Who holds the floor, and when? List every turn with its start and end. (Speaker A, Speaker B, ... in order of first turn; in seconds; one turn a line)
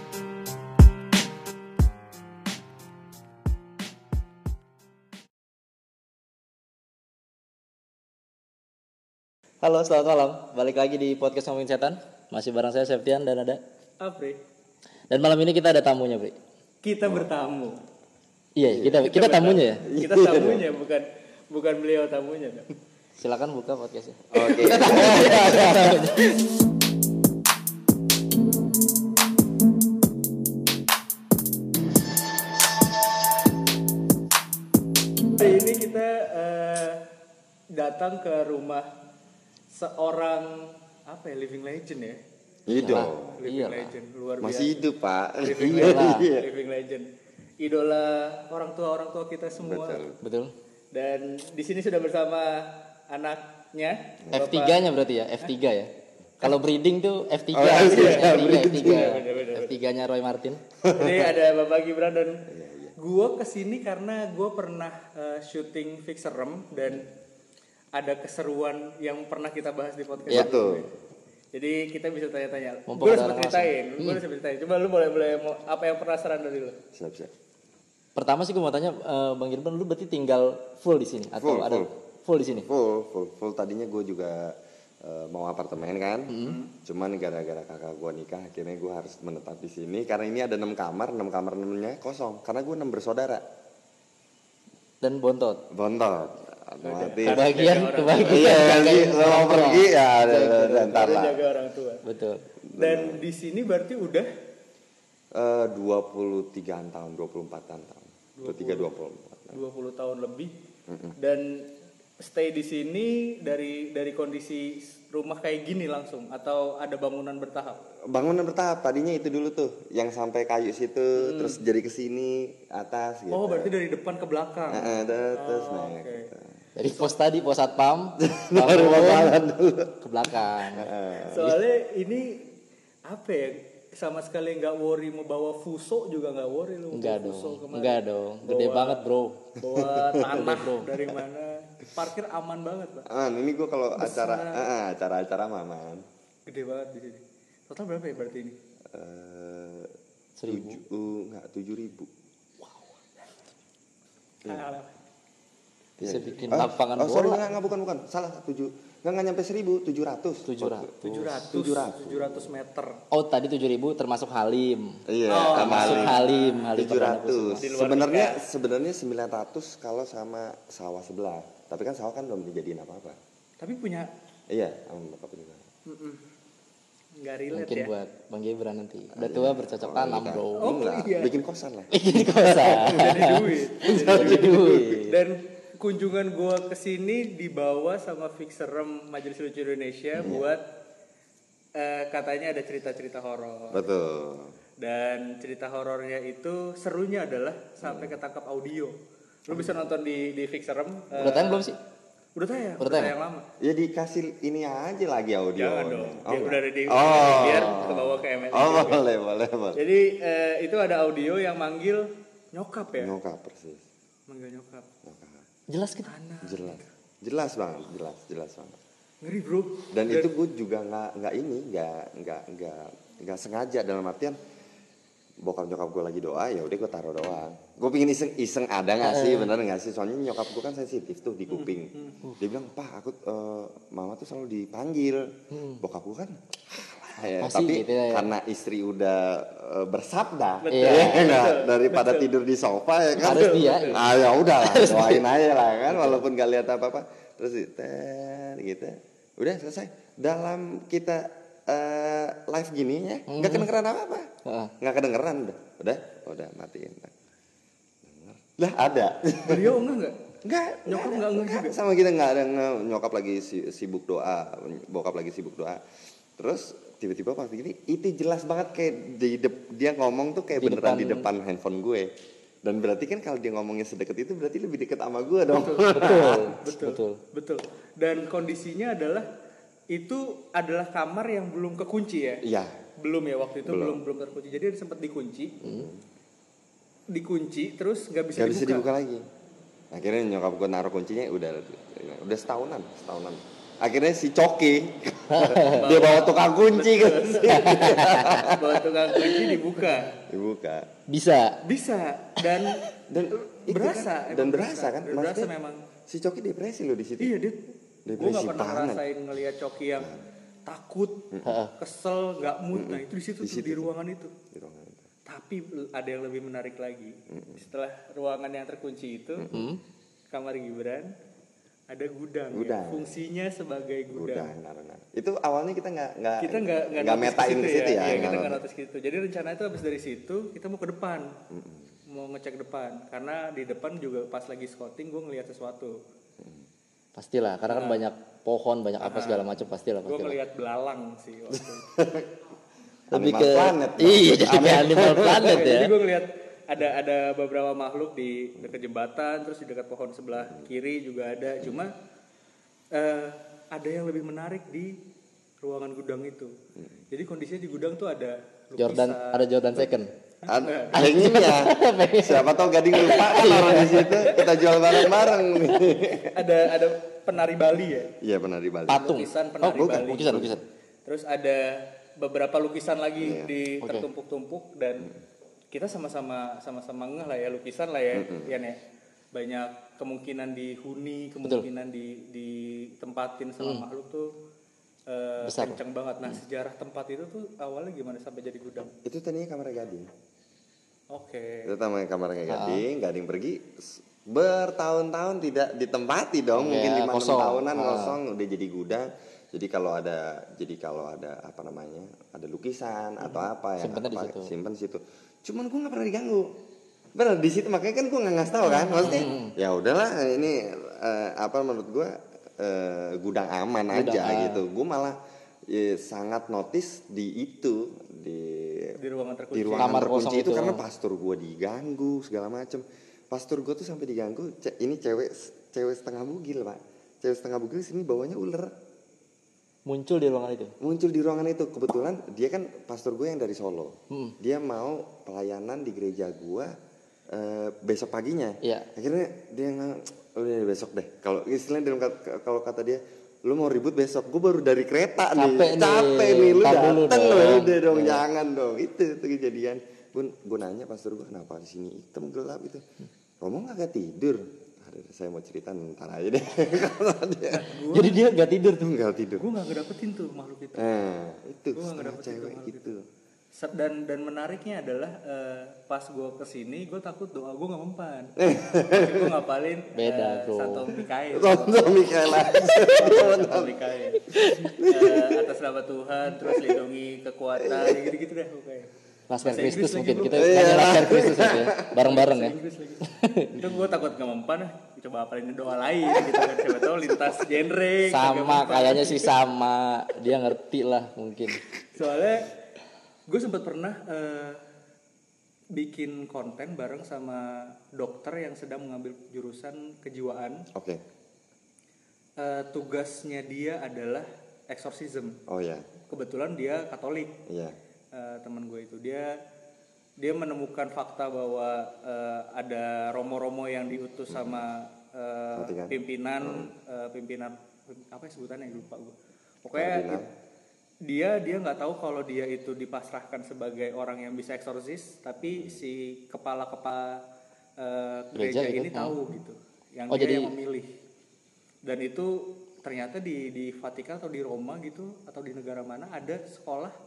Speaker A: 9.6-13.6
Speaker B: 14.0-14.4
Speaker A: 15.1-16.4
Speaker B: 16.8-17.8
Speaker A: 18.6-19.8
Speaker C: 18.7-19.1
Speaker B: 19.0-22.6
Speaker C: 19.8-20.6
Speaker A: 23.2-26.4
Speaker C: 24.3-26.1
Speaker B: 35.4-37.0
Speaker B: 37.7-38.9
Speaker B: 39.7-42.2
Speaker C: 42.7-43.4
Speaker A: 42.7-43.9
Speaker B: 43.4-44.8
Speaker C: 44.4-46.5
Speaker B: 45.4-47.1
Speaker A: 45.6-46.3
Speaker B: 47.6-50.0
Speaker C: 49.6-50.2
Speaker A: 50.2-50.5
Speaker B: 50.9-54.8
Speaker A: 54.3-60.6
Speaker C: 57.5-59.2
Speaker B: 57.6-59.7
Speaker C: 60.8-61.3
Speaker B: 60.9-62.5
Speaker C: 62.5-62.9
Speaker B: 63.0-67.1
Speaker B: 67.9-70.9
Speaker C: 70.3-71.0
Speaker B: 71.5-76.8
Speaker A: 72.9-74.2
Speaker C: 76.9-77.3
Speaker A: 78.2-82.7
Speaker C: 81.3-81.9
Speaker C: 82.5-93.4
Speaker A: 86.3-86.6
Speaker B: 86.4-86.7
Speaker A: 95.0-95.6
Speaker C: 95.7-101.4
Speaker B: 96.8-98.9
Speaker A: 97.2-101.1
Speaker B: 100.9-102.0
Speaker A: 102.0-102.4
Speaker C: 102.7-103.2
Speaker B: 102.8-104.3
Speaker C: 105.3-109.6
Speaker B: 108.4-108.9
Speaker B: 109.5-110.5
Speaker C: 110.9-111.1
Speaker B: 111.2-111.7
Speaker B: 112.2-117.8
Speaker C: 118.1-123.7
Speaker B: 121.2-121.6
Speaker B: 123.3-126.3
Speaker C: 124.7-126.6
Speaker A: 126.8-129.4
Speaker C: 128.2-129.9
Speaker A: 130.0-130.9
Speaker C: 130.7-131.5
Speaker B: 131.2-132.5
Speaker B: 133.1-139.0
Speaker A: 136.9-139.4
Speaker B: 139.6-143.1
Speaker C: 139.7-140.5
Speaker A: 140.3-140.9
Speaker C: 143.1-146.1
Speaker B: 144.0-144.7
Speaker B: 146.5-148.6
Speaker C: 148.9-149.9
Speaker A: 150.4-150.8
Speaker C: 150.5-152.1
Speaker C: 154.4-154.7
Speaker B: 154.4-154.9
Speaker C: 156.0-162.5
Speaker A: 156.0-157.4
Speaker A: 160.5-161.3
Speaker B: 161.0-163.0
Speaker A: 163.1-167.6
Speaker C: 165.1-173.2
Speaker B: 165.3-166.7
Speaker B: 167.6-168.4
Speaker B: 173.6-174.1
Speaker C: 174.5-175.7
Speaker B: 175.9-176.2
Speaker B: 177.2-177.9
Speaker A: 177.5-180.7
Speaker C: 179.2-183.2
Speaker B: 180.6-181.3
Speaker A: 181.9-185.2
Speaker B: 182.8-190.6
Speaker C: 183.8-185.0
Speaker C: 190.2-190.5
Speaker B: 191.8-193.8
Speaker C: 193.7-194.6
Speaker B: 194.8-198.9
Speaker C: 197.8-198.2
Speaker B: 199.5-201.7
Speaker C: 199.5-199.9
Speaker A: 201.2-201.8
Speaker B: 202.4-203.5
Speaker A: 202.8-203.1
Speaker C: 203.6-209.8
Speaker B: 205.6-209.0
Speaker A: 207.5-207.8
Speaker B: 209.8-213.2
Speaker C: 213.0-213.9
Speaker B: 214.3-214.9
Speaker C: 215.0-215.5
Speaker A: 215.7-216.1
Speaker B: 216.0-216.8
Speaker C: 216.4-218.8
Speaker B: 219.2-220.3
Speaker C: 219.9-224.4
Speaker C: 225.4-257.1
Speaker A: 229.0-229.5
Speaker B: 231.5-232.2
Speaker A: 235.5-235.8
Speaker A: 237.3-238.3
Speaker B: 240.6-242.3
Speaker A: 240.7-241.3
Speaker B: 243.2-244.0
Speaker A: 243.2-245.2
Speaker A: 245.9-246.2
Speaker A: 253.3-253.7
Speaker A: 254.5-254.7
Speaker C: 258.0-259.8
Speaker B: 259.4-260.1
Speaker C: 260.4-265.8
Speaker B: 260.9-261.8
Speaker C: 266.4-272.1
Speaker A: 270.6-271.2
Speaker C: 272.6-276.5
Speaker B: 275.5-279.3
Speaker A: 275.9-277.2
Speaker B: 279.9-282.4
Speaker C: 282.4-282.8
Speaker B: 283.0-285.6
Speaker C: 283.6-284.0
Speaker C: 285.6-286.0
Speaker B: 287.1-288.9
Speaker C: 288.3-289.2
Speaker C: 289.9-298.8
Speaker A: 295.3-295.9
Speaker B: 295.7-300.1
Speaker A: 297.5-298.4
Speaker C: 300.1-300.9
Speaker A: 301.1-301.6
Speaker B: 301.6-305.8
Speaker C: 303.1-305.5
Speaker C: 306.1-307.3
Speaker B: 307.2-310.1
Speaker C: 308.1-309.0
Speaker B: 310.6-314.3
Speaker C: 311.3-311.6
Speaker A: 311.4-311.7
Speaker C: 312.7-313.9
Speaker C: 314.5-315.1
Speaker B: 315.3-319.5
Speaker C: 317.3-317.6
Speaker C: 319.4-319.7
Speaker A: 319.5-319.8
Speaker B: 320.3-321.1
Speaker B: 321.9-324.5
Speaker C: 322.5-323.2
Speaker C: 324.1-328.6
Speaker B: 326.4-331.3
Speaker C: 331.5-331.9
Speaker B: 332.1-336.0
Speaker C: 336.4-336.6
Speaker A: 337.1-340.4
Speaker B: 337.7-338.0
Speaker B: 339.0-341.9
Speaker C: 341.8-342.3
Speaker C: 343.1-345.6
Speaker A: 343.1-345.9
Speaker B: 345.3-351.9
Speaker B: 352.9-355.0
Speaker B: 355.6-356.5
Speaker B: 357.1-359.4
Speaker A: 358.8-360.1
Speaker C: 359.8-366.4
Speaker B: 360.4-361.0
Speaker A: 360.9-364.2
Speaker B: 364.2-364.6
Speaker B: 366.3-368.1
Speaker C: 368.2-369.0
Speaker A: 368.9-370.6
Speaker B: 368.9-370.4
Speaker C: 369.7-370.6
Speaker B: 371.1-375.1
Speaker C: 373.2-373.5
Speaker B: 375.7-378.8
Speaker C: 378.1-378.5
Speaker B: 379.3-384.3
Speaker B: 385.1-388.9
Speaker A: 385.4-386.4
Speaker C: 389.0-390.1
Speaker B: 391.1-391.7
Speaker C: 391.6-406.5
Speaker A: 392.5-392.8
Speaker A: 396.5-398.2
Speaker A: 403.8-404.5
Speaker C: 407.1-418.9
Speaker A: 409.0-409.5
Speaker A: 413.9-414.6
Speaker B: 419.0-420.1
Speaker C: 419.5-428.7
Speaker A: 419.8-420.8
Speaker A: 429.9-430.7
Speaker C: 430.8-436.7
Speaker C: 437.3-452.8
Speaker A: 438.6-438.9
Speaker A: 445.4-448.2
Speaker C: 453.4-457.7
Speaker B: 457.5-458.2
Speaker A: 457.9-458.9
Speaker C: 458.8-459.4
Speaker B: 459.4-460.9
Speaker C: 460.8-463.0
Speaker B: 461.8-462.9
Speaker B: 463.5-478.9
Speaker C: 468.4-469.3
Speaker A: 469.9-470.9
Speaker C: 471.3-473.8
Speaker A: 474.3-474.7
Speaker C: 474.6-475.5
Speaker C: 476.4-476.8
Speaker C: 477.6-478.1
Speaker A: 479.3-482.5
Speaker B: 479.4-481.0
Speaker C: 480.3-481.9
Speaker B: 481.9-489.3
Speaker A: 483.1-483.6
Speaker A: 488.1-491.6
Speaker B: 491.9-492.5
Speaker B: 493.3-494.6
Speaker B: 495.7-500.6
Speaker C: 500.7-501.0
Speaker B: 502.4-505.4
Speaker C: 505.5-505.9
Speaker B: 506.1-507.4
Speaker C: 507.5-507.8
Speaker B: 508.1-509.4
Speaker B: 510.2-520.2
Speaker C: 514.3-514.6
Speaker C: 515.5-516.7
Speaker C: 519.8-520.3
Speaker B: 521.0-527.2
Speaker B: 527.8-530.9
Speaker A: 528.4-529.1
Speaker A: 530.1-530.5
Speaker B: 531.9-536.9